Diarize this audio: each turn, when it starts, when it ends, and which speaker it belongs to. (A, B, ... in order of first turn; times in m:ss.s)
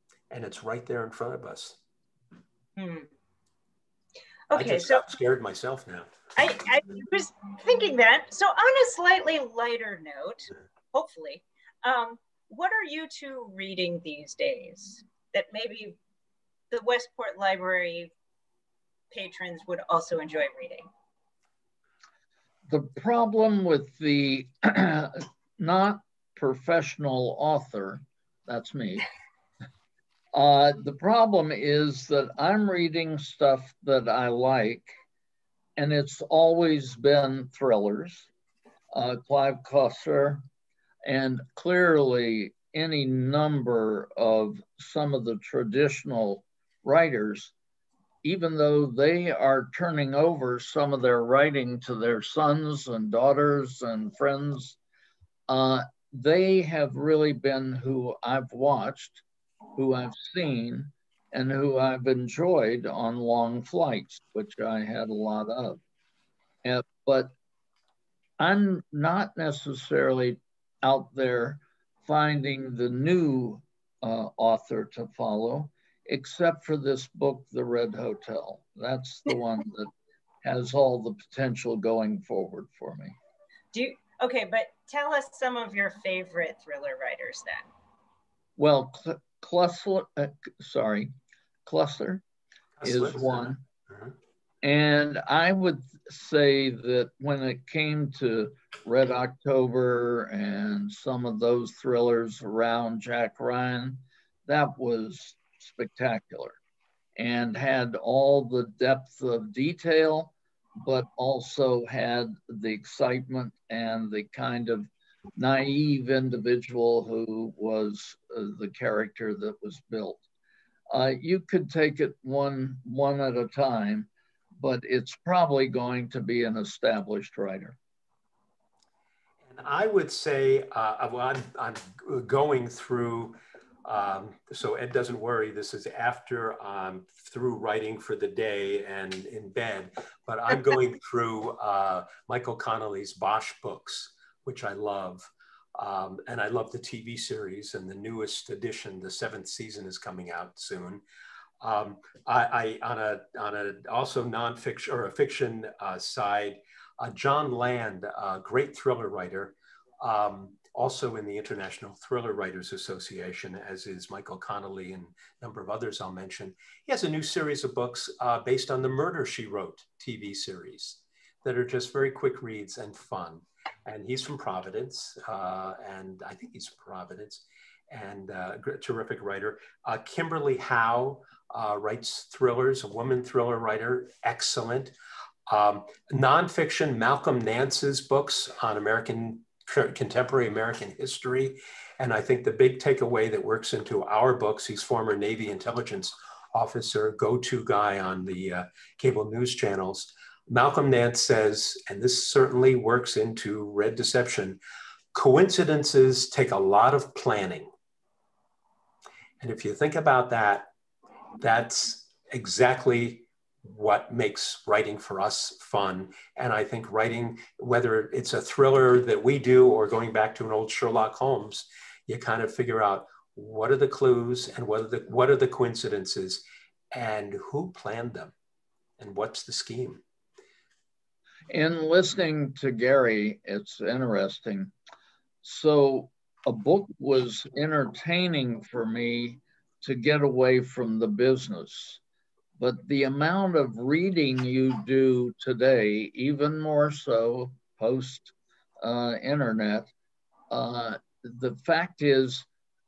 0:00.3-0:01.8 A
0:02.8-0:03.1 B
0:04.5-0:05.0 B
0:04.5-0:06.3 A
0:06.4-0:16.0 B
0:16.7-0:18.1 B
0:19.1-0:20.9 B
0:22.7-0:29.0 C
0:30.3-0:34.9 C
0:35.8-0:38.3 C
0:38.9-0:40.4 C
0:41.0-0:47.5 C
0:48.2-0:54.8 C
0:55.5-0:59.2 C
0:59.8-1:05.8 C
1:06.6-1:07.3 C
1:08.4-1:19.9 C
1:20.4-1:23.2 C
1:23.7-1:27.6 B
1:28.6-1:31.1 C
1:31.6-1:32.2 C
1:32.8-1:34.1 A
1:32.8-1:33.6 C
1:34.6-1:46.6 C
1:47.2-2:00.2 C
2:00.9-2:07.8 C
2:09.5-2:31.0 A
2:31.6-3:04.9 A
3:05.5-3:24.6 A
3:25.1-3:27.7 A
3:29.4-3:30.7 A
3:31.4-3:48.3 A
3:49.0-3:50.0 A
3:51.5-3:54.7 C
3:55.4-4:02.0 C
4:02.6-4:09.9 C
4:10.5-4:12.5 C